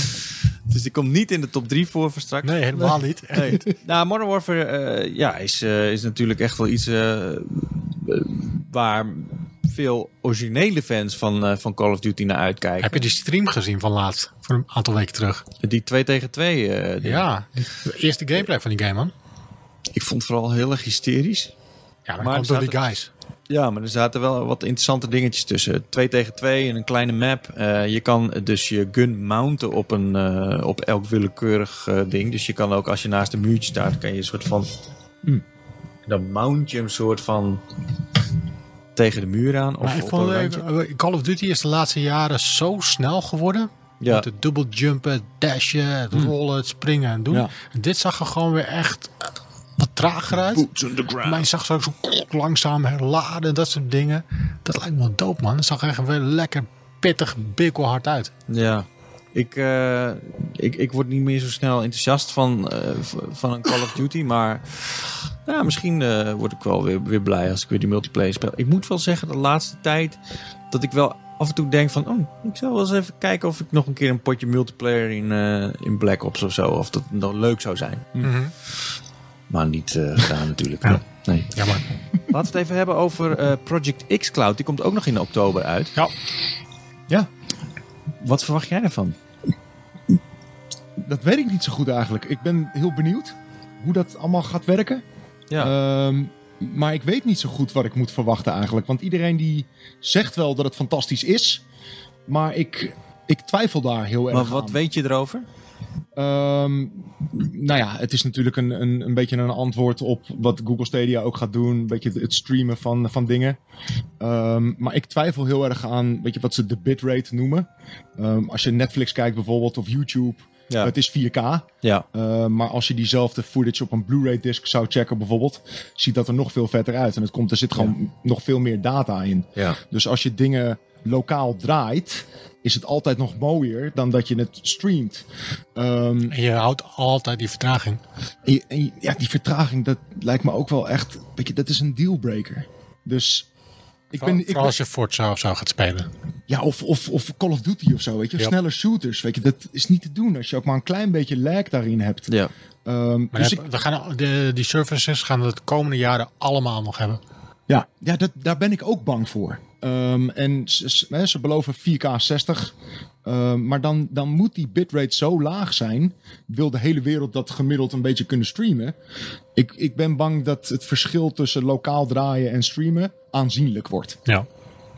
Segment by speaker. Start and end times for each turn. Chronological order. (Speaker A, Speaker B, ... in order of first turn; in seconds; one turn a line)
Speaker A: 0.7-2.6
Speaker B: 2.4-3.6
Speaker C: 2.8-3.7
Speaker A: 3.3-13.1
Speaker B: 12.8-15.4
Speaker A: 15.6-17.2
Speaker B: 17.0-19.1
Speaker A: 19.9-21.5
Speaker B: 22.1-23.1
Speaker A: 22.2-22.8
Speaker A: 23.5-34.7
Speaker A: 36.1-37.6
Speaker A: 39.0-40.6
Speaker B: 39.8-49.1
Speaker A: 44.0-44.3
Speaker B: 49.8-50.7
Speaker A: 50.5-51.5
Speaker B: 51.2-58.3
Speaker A: 58.5-70.2
Speaker A: 70.7-78.1
Speaker B: 78.2-78.5
Speaker A: 79.5-81.7
Speaker B: 81.5-81.8
Speaker A: 82.3-86.0
Speaker A: 88.2-89.2
Speaker C: 91.0-95.0
Speaker C: 95.6-101.6
Speaker C: 102.3-104.8
Speaker A: 104.3-105.5
Speaker C: 106.2-113.6
Speaker C: 114.2-135.2
Speaker C: 135.8-136.3
Speaker B: 136.3-138.0
Speaker C: 138.4-143.5
Speaker C: 144.1-144.8
Speaker B: 144.2-146.1
Speaker C: 146.5-152.3
Speaker C: 152.8-153.6
Speaker B: 153.3-157.2
Speaker C: 157.7-162.7
Speaker C: 163.2-169.0
Speaker C: 169.6-174.2